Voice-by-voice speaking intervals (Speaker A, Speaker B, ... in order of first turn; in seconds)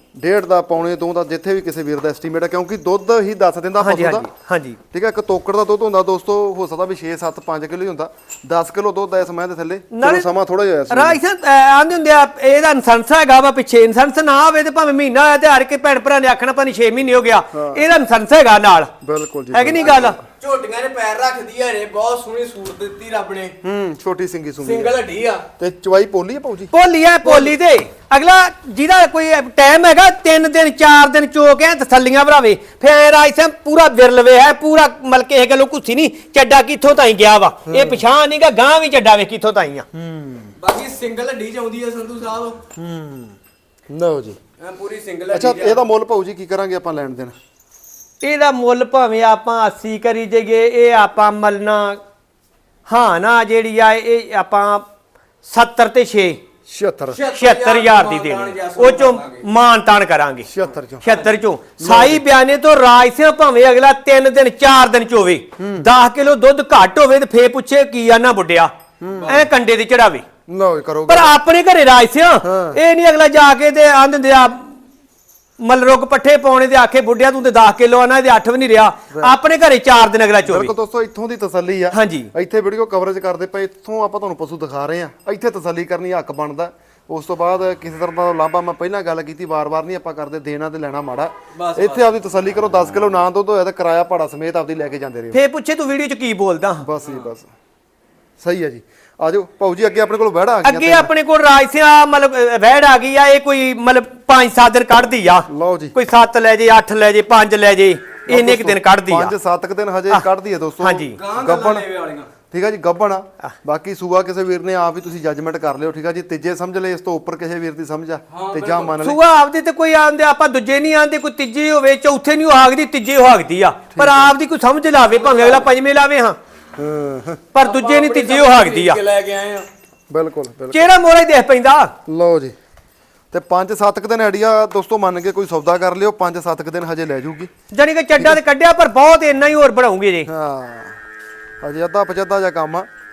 Speaker A: 0.1-4.3, 4.9-11.2, 17.5-17.9, 19.0-20.2, 23.6-25.0, 25.6-26.7, 37.6-38.0, 39.9-40.5, 42.8-43.4, 43.9-44.4, 45.3-47.3, 56.7-57.2, 60.5-61.0, 61.8-62.2, 65.6-65.9, 69.0-69.3, 70.5-71.3, 72.4-72.8, 80.4-95.4, 96.8-97.5, 98.4-101.1, 105.5-105.9, 108.3-111.8, 112.5-119.2, 123.9-124.3, 126.8-127.4, 130.1-130.9, 132.1-132.5, 133.3-137.5, 140.3-141.0, 141.6-142.9
Speaker B: 3.8-4.8, 9.9-10.3, 10.9-18.9, 19.5-20.2, 26.7-39.9, 48.2-52.0, 52.9-54.9, 55.4-56.4, 57.3-60.5, 61.0-68.7, 69.2-70.2, 71.1-74.7, 75.6-80.7, 81.9-82.3, 95.3-96.9, 100.6-109.3, 110.8-111.2, 119.0-126.4, 127.5-129.0, 130.7-131.9, 137.7-140.3
Speaker C: 19.7-23.5, 24.6-25.4, 27.2-27.5, 40.6-42.6, 44.6-45.8, 57.1-59.5, 69.0-69.5, 91.5-92.2, 111.1-112.3, 118.3-119.0, 125.1-125.7, 127.6-129.7